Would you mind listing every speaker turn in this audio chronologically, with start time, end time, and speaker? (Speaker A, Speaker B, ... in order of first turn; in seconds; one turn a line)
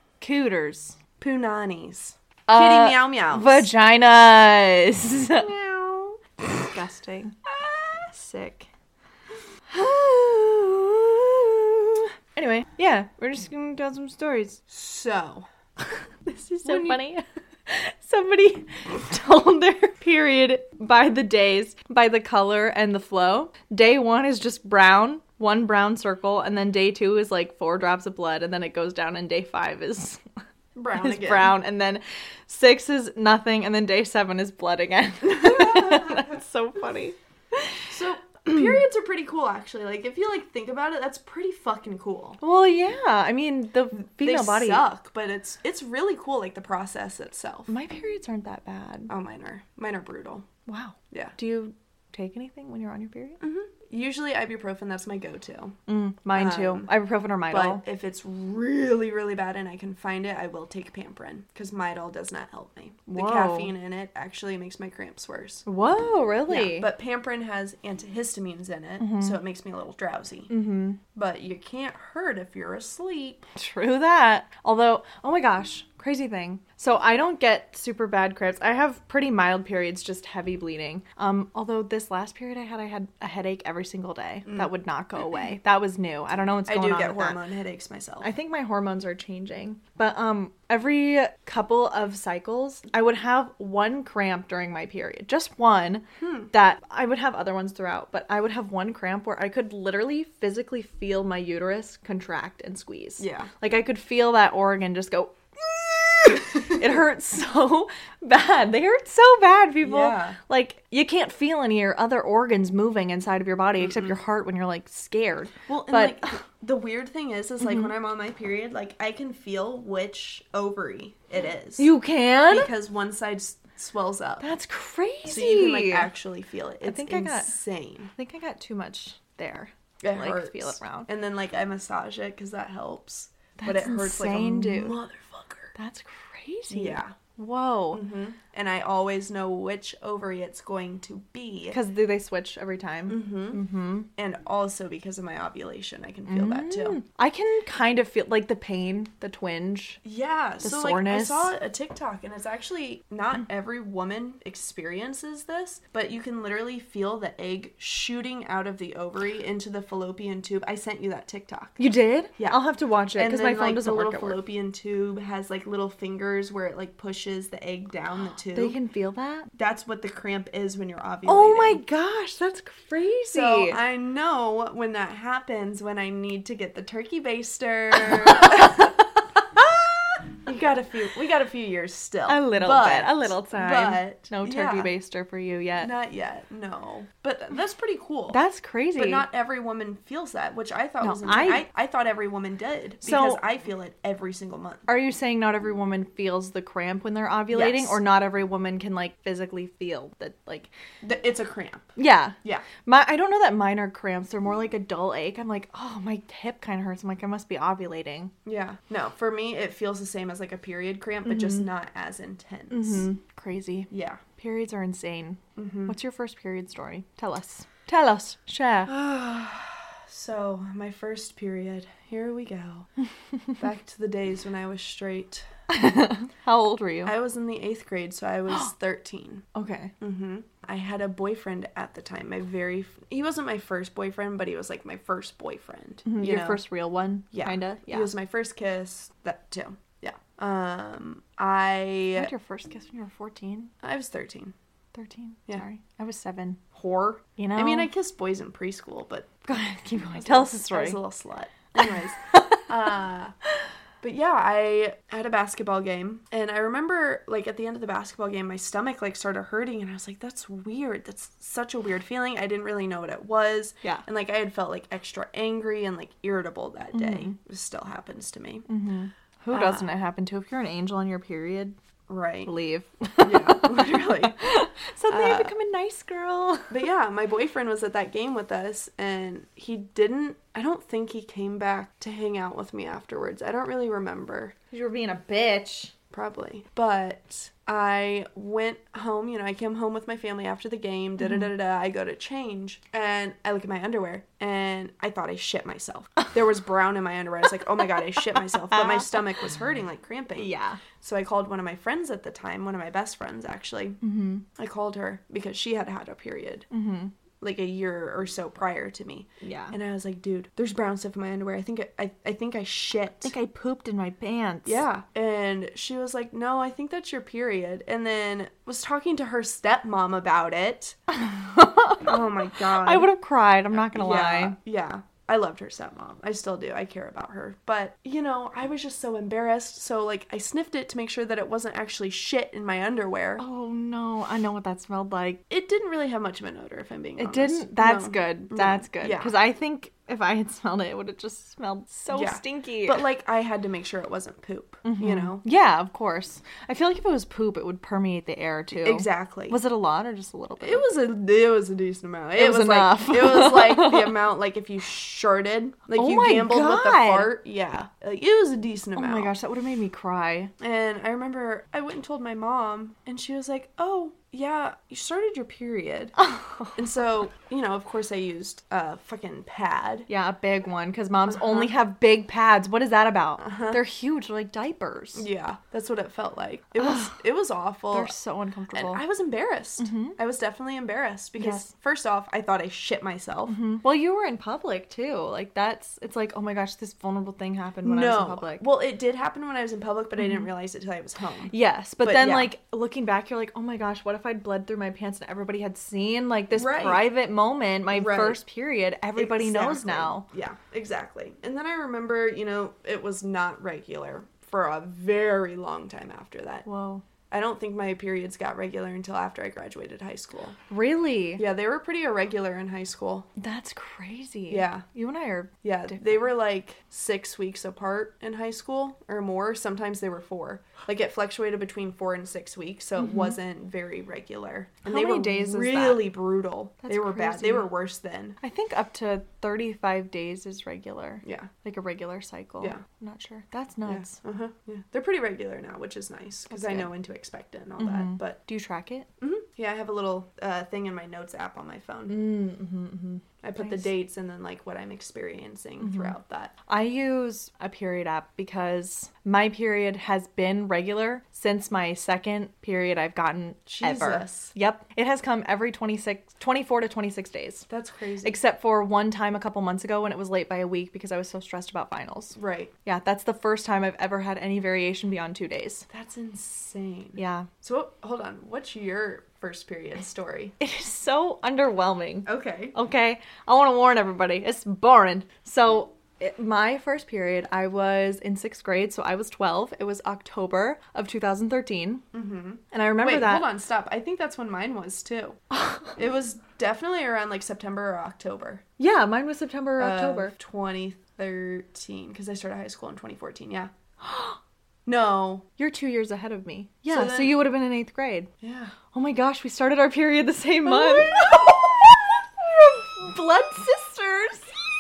Speaker A: 0.2-1.0
Speaker B: 1.2-3.7
Speaker A: 2.5-5.5
Speaker B: 5.4-6.2
Speaker A: 6.7-7.3
Speaker B: 7.4-8.7
Speaker A: 9.7-14.6
Speaker B: 14.7-15.5
Speaker A: 16.3-30.2
Speaker B: 16.6-17.0
Speaker B: 30.8-31.6
Speaker A: 30.9-37.9
Speaker B: 35.2-36.3
Speaker B: 37.9-42.4
Speaker A: 38.5-38.7
Speaker A: 42.4-44.9
Speaker B: 44.0-47.7
Speaker A: 47.7-49.1
Speaker B: 49.1-50.5
Speaker A: 50.7-53.4
Speaker B: 53.4-55.8
Speaker A: 55.9-57.8
Speaker B: 56.3-56.9
Speaker B: 57.5-65.7
Speaker A: 63.1-63.7
Speaker A: 65.7-66.9
Speaker B: 66.5-70.5
Speaker A: 69.0-69.4
Speaker A: 70.5-71.0
Speaker B: 71.1-73.4
Speaker A: 73.6-87.4
Speaker B: 84.5-84.7
Speaker B: 86.7-88.3
Speaker A: 88.2-116.4
Speaker B: 96.2-96.5
Speaker B: 103.2-103.5
Speaker B: 109.8-110.4
Speaker B: 113.9-114.1
Speaker B: 115.7-121.9
Speaker A: 117.6-117.9
Speaker A: 121.8-122.7
Speaker B: 122.5-124.5
Speaker A: 124.4-126.1
Speaker B: 125.2-128.1
Speaker A: 126.8-127.5
Speaker A: 128.2-131.1
Speaker B: 130.0-135.7
Speaker A: 133.6-135.0
Speaker A: 135.8-138.1
Speaker B: 136.7-137.2
Speaker B: 137.9-141.8
Speaker A: 141.7-144.1
Speaker B: 143.1-143.6
Speaker B: 144.2-147.0
Speaker A: 146.3-150.0
Speaker B: 150.0-161.8
Speaker A: 150.6-151.5
Speaker A: 161.8-164.4
Speaker B: 163.2-168.8
Speaker A: 168.5-169.5
Speaker B: 169.6-171.8
Speaker A: 171.3-173.8
Speaker B: 173.3-178.9
Speaker A: 178.5-178.9
Speaker B: 179.6-184.9
Speaker A: 182.3-185.9
Speaker B: 185.8-188.4
Speaker A: 188.3-189.2
Speaker B: 189.0-194.9
Speaker A: 191.0-191.7
Speaker A: 193.0-193.4
Speaker A: 194.9-200.7
Speaker B: 197.5-198.0
Speaker B: 201.0-201.9
Speaker A: 202.0-208.3
Speaker B: 208.4-213.1
Speaker A: 211.3-211.7
Speaker A: 212.7-218.9
Speaker B: 213.9-214.2
Speaker B: 215.6-215.9
Speaker B: 218.9-222.9
Speaker B: 223.6-225.5
Speaker A: 225.7-227.2
Speaker B: 227.1-229.5
Speaker A: 229.6-229.9
Speaker B: 230.0-236.6
Speaker A: 236.1-238.1
Speaker B: 237.3-242.3
Speaker A: 242.2-243.7
Speaker B: 243.8-244.6
Speaker A: 244.9-246.6
Speaker B: 246.7-249.3
Speaker A: 247.4-247.9
Speaker A: 249.5-251.0
Speaker B: 250.2-253.3
Speaker A: 251.8-252.7
Speaker B: 254.0-268.7
Speaker A: 266.9-267.4
Speaker A: 268.7-271.8
Speaker B: 269.5-269.9
Speaker B: 272.1-272.5
Speaker A: 272.5-276.8
Speaker B: 273.2-274.4
Speaker B: 275.1-275.5
Speaker B: 276.7-284.6
Speaker A: 284.7-285.9
Speaker B: 286.1-304.0
Speaker A: 291.2-291.5
Speaker A: 298.4-299.2
Speaker A: 300.4-300.8
Speaker A: 304.0-304.4
Speaker B: 304.6-306.7
Speaker A: 306.7-307.1
Speaker B: 307.4-313.3
Speaker A: 309.4-309.8
Speaker A: 313.2-314.8
Speaker B: 314.6-321.0
Speaker A: 321.1-324.6
Speaker B: 322.0-323.1
Speaker B: 323.8-333.4
Speaker A: 333.4-335.4
Speaker B: 335.5-339.3
Speaker A: 337.2-343.1
Speaker B: 342.1-345.4
Speaker A: 344.8-350.9
Speaker B: 348.7-349.6
Speaker B: 350.6-359.3
Speaker A: 352.4-354.2
Speaker A: 355.9-357.3
Speaker A: 359.0-360.5
Speaker B: 360.6-366.1
Speaker A: 366.2-366.8
Speaker B: 366.8-370.1
Speaker A: 370.1-375.3
Speaker B: 371.3-371.7
Speaker B: 373.4-373.8
Speaker B: 375.1-378.1
Speaker A: 376.8-377.1
Speaker A: 377.9-379.0
Speaker B: 378.7-383.6
Speaker A: 379.8-380.2
Speaker A: 381.4-381.7
Speaker A: 383.5-388.6
Speaker B: 387.8-392.5
Speaker A: 391.5-400.3
Speaker B: 396.5-397.1
Speaker B: 397.9-398.4
Speaker B: 399.2-406.7
Speaker A: 406.7-407.0
Speaker B: 407.3-410.6
Speaker A: 410.7-411.4
Speaker B: 411.4-413.3
Speaker A: 413.4-416.3
Speaker B: 414.5-414.9
Speaker B: 415.6-428.4
Speaker A: 423.0-423.4
Speaker A: 424.9-426.2
Speaker A: 426.8-427.7
Speaker A: 428.4-434.2
Speaker B: 431.2-431.5
Speaker B: 433.9-438.4
Speaker A: 436.5-436.9
Speaker A: 437.8-439.1
Speaker B: 439.2-442.2
Speaker A: 442.1-443.9
Speaker B: 443.4-446.5
Speaker A: 445.8-446.1
Speaker A: 446.7-457.7
Speaker B: 453.7-454.5
Speaker B: 457.7-458.4
Speaker A: 458.2-465.9
Speaker B: 462.4-462.7
Speaker B: 465.9-470.6
Speaker A: 467.2-467.5
Speaker A: 470.6-482.1
Speaker B: 472.3-472.8
Speaker B: 482.1-485.4
Speaker A: 482.7-483.5
Speaker A: 485.6-485.9
Speaker B: 486.0-488.6
Speaker A: 488.8-490.3
Speaker B: 489.8-493.7
Speaker A: 494.1-494.4
Speaker B: 494.9-495.5
Speaker A: 495.6-498.3
Speaker B: 496.9-497.4
Speaker B: 498.4-498.8
Speaker A: 498.9-504.6
Speaker B: 500.7-501.9